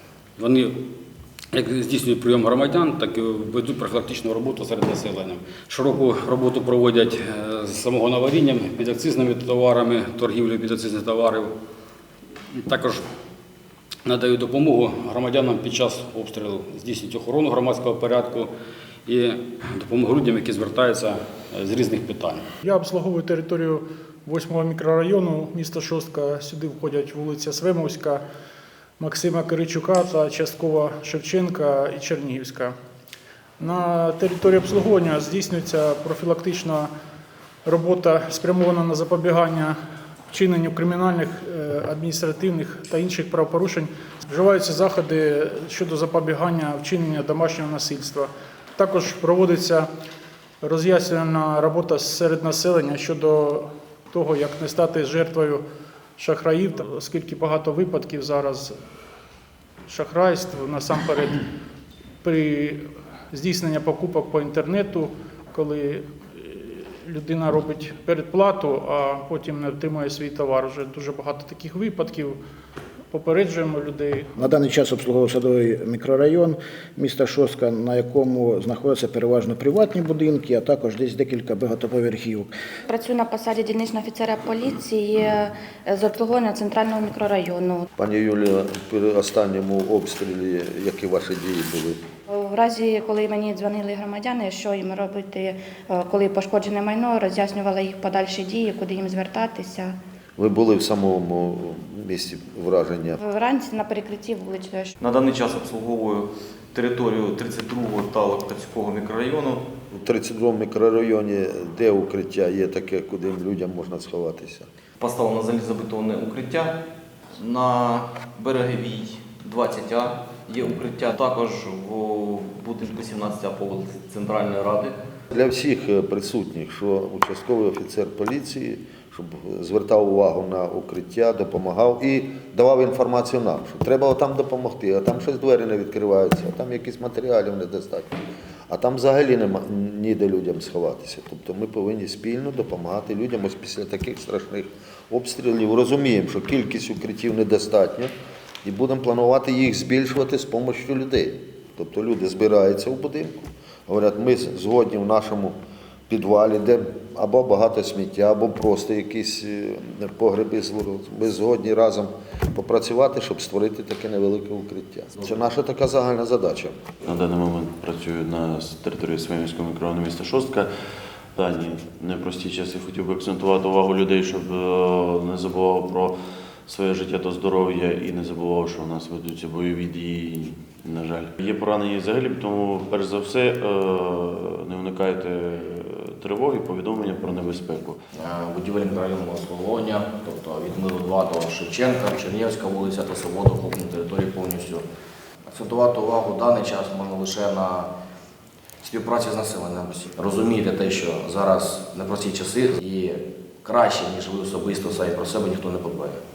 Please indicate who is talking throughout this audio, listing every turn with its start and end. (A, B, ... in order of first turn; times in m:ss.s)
0:00.4-0:00.8 A
0:01.5-0:11.5 A
0:12.5-0:13.0 A
0:14.0-0:18.5 A
0:19.0-0:22.5 A
0:22.6-0:28.2 B
0:29.0-0:32.7 B
0:33.6-0:36.9 B
0:37.7-0:39.8 B
0:40.3-0:49.9 B
0:50.6-0:55.6 B
0:56.2-0:58.7 B
0:59.9-1:01.4 B
1:02.2-1:12.4 B
1:13.1-1:14.3 B
1:14.4-1:22.5 C
1:22.9-1:27.9 D
1:28.0-1:32.0 E
1:32.3-1:40.0 D
1:40.4-1:43.2 E
1:43.2-1:44.9 D
1:45.0-1:49.7 F
1:49.9-1:54.7 E
1:55.0-1:56.8 F
1:57.3-2:05.0 F
2:05.3-2:18.2 E
2:18.7-2:28.1 E
2:28.6-2:35.6 E
2:36.1-2:46.8 E
2:47.0-2:50.7 G
2:51.4-2:56.1 G
2:56.7-3:08.0 G
3:08.1-3:14.8 H
3:15.5-3:17.9 H
3:18.8-3:26.2 H